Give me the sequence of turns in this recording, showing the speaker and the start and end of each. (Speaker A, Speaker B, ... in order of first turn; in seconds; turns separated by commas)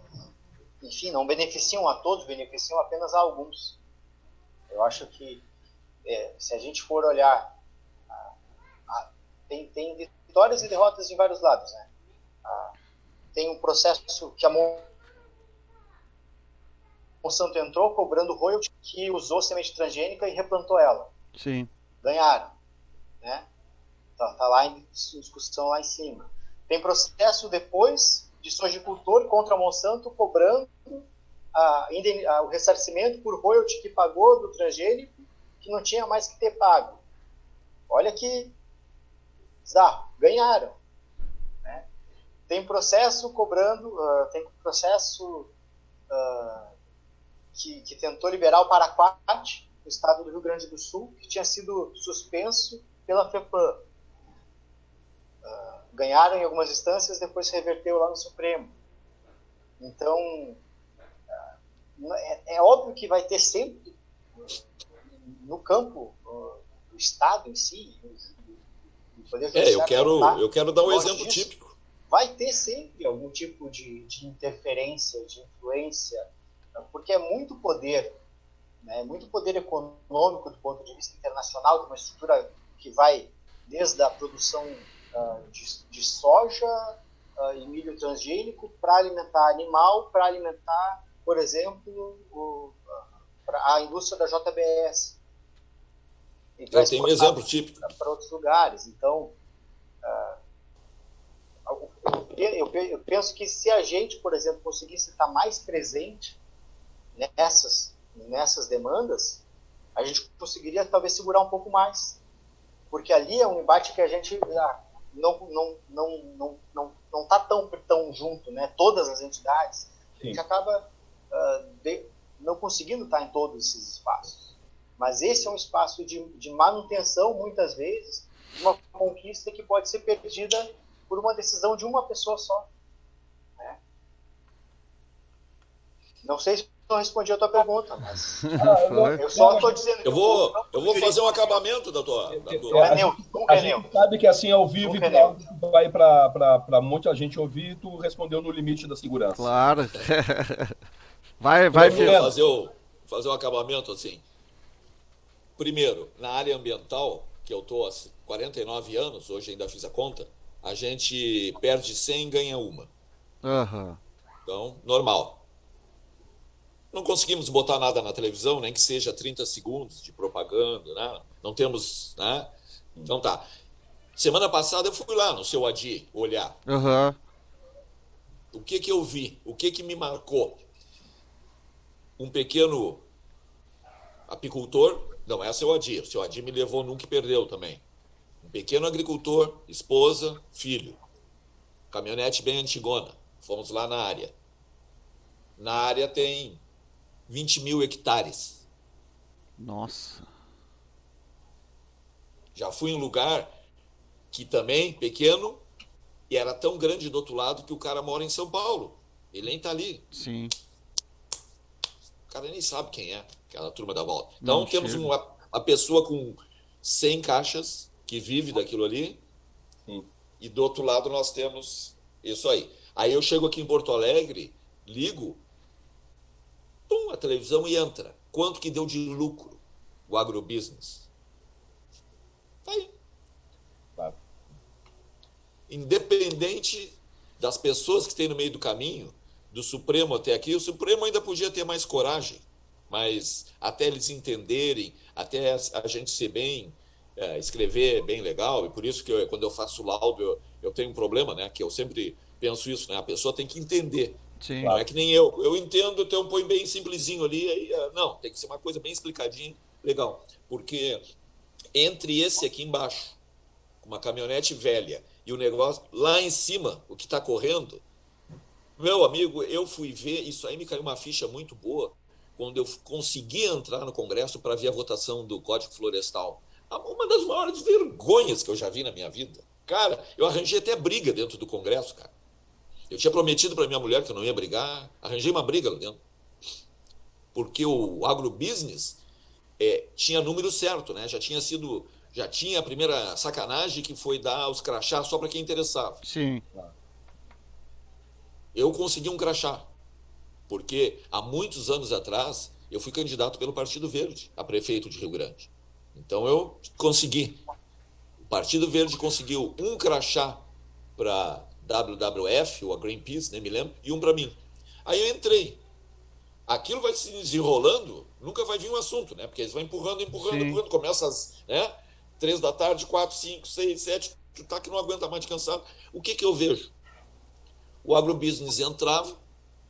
Speaker A: 0.8-3.8, Speaker A: 4.7-5.5, Speaker A: 6.0-7.5, Speaker A: 8.9-11.9, Speaker A: 12.4-12.7, Speaker A: 13.3-14.9, Speaker A: 17.2-21.1, Speaker B: 21.4-21.7, Speaker A: 22.0-22.5, Speaker A: 24.2-37.0, Speaker A: 37.9-38.6, Speaker A: 39.6-40.8, Speaker A: 42.5-45.5, Speaker A: 46.1-46.7, Speaker A: 47.5-53.9, Speaker A: 55.4-58.7, Speaker A: 59.8-60.6, Speaker A: 62.0-64.6, Speaker A: 65.1-71.5, Speaker C: 69.5-71.7, Speaker A: 72.1-76.2, Speaker A: 76.8-78.2, Speaker A: 78.8-92.8, Speaker A: 93.5-95.2, Speaker A: 96.6-99.4, Speaker C: 96.7-97.9, Speaker A: 100.0-100.4, Speaker A: 101.7-106.4, Speaker A: 107.2-109.4, Speaker A: 110.0-112.2, Speaker A: 112.9-132.7, Speaker A: 136.2-138.5, Speaker B: 138.4-139.2, Speaker D: 138.5-139.8, Speaker A: 139.1-141.5, Speaker C: 140.0-143.0, Speaker D: 142.3-149.5, Speaker A: 142.7-143.8, Speaker A: 144.8-145.4, Speaker B: 149.4-150.7, Speaker B: 151.4-152.3, Speaker D: 151.7-152.4, Speaker C: 151.7-154.2, Speaker C: 155.6-162.9, Speaker B: 163.4-164.0, Speaker C: 164.4-165.4, Speaker C: 166.9-172.5, Speaker C: 173.1-173.4, Speaker C: 174.2-176.6, Speaker B: 176.7-177.2, Speaker C: 178.5-180.6, Speaker C: 182.2-183.1, Speaker C: 184.3-187.8, Speaker C: 188.4-191.0, Speaker C: 191.9-194.3, Speaker C: 195.6-196.6, Speaker C: 197.3-198.6, Speaker B: 199.6-200.3, Speaker C: 202.6-203.5, Speaker C: 204.3-205.7, Speaker C: 206.3-210.1, Speaker B: 210.1-210.5, Speaker C: 212.3-219.2, Speaker B: 214.4-215.1, Speaker C: 220.4-225.4, Speaker C: 226.9-231.1, Speaker C: 232.6-232.9, Speaker C: 235.7-261.0, Speaker B: 254.4-254.7, Speaker C: 261.7-263.2, Speaker C: 263.8-267.8, Speaker C: 268.8-282.1, Speaker C: 282.9-286.0, Speaker C: 287.3-289.0, Speaker C: 289.6-296.0, Speaker B: 296.0-296.4, Speaker C: 298.5-299.7, Speaker C: 300.5-307.4, Speaker C: 308.2-310.4, Speaker C: 311.0-315.6, Speaker C: 316.5-326.7, Speaker B: 320.1-320.6, Speaker C: 327.8-329.2